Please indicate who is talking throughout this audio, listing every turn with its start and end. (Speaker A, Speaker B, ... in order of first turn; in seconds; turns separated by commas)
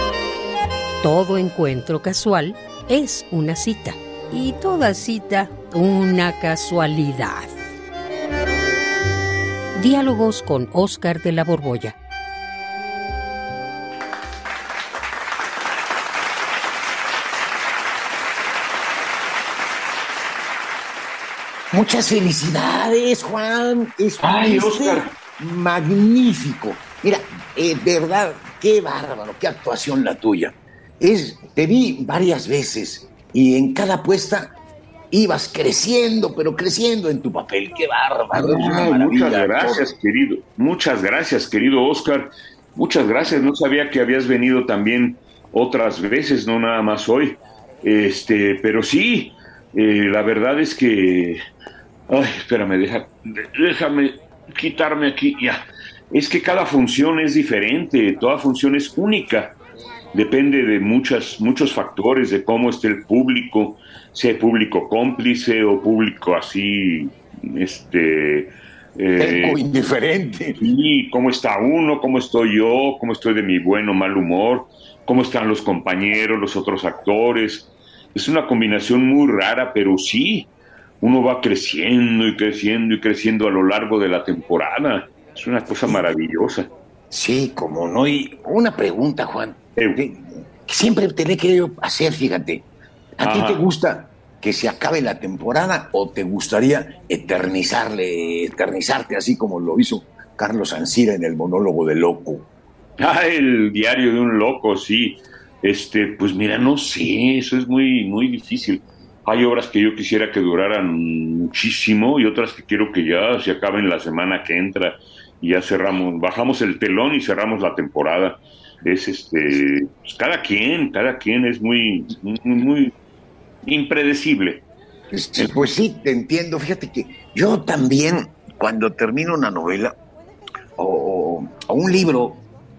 Speaker A: 1.0-7.5, Speaker A: 9.8-11.9, Speaker B: 21.7-34.5, Speaker C: 24.2-25.1, Speaker B: 35.1-39.9, Speaker C: 38.3-51.4, Speaker C: 52.1-59.6, Speaker C: 60.1-69.6, Speaker B: 69.2-70.6, Speaker C: 70.6-80.5, Speaker C: 81.0-86.7, Speaker B: 87.1-102.5, Speaker C: 89.8-90.0, Speaker C: 93.2-93.6, Speaker C: 103.0-122.9, Speaker C: 123.6-124.7, Speaker B: 125.1-129.9, Speaker B: 130.8-132.4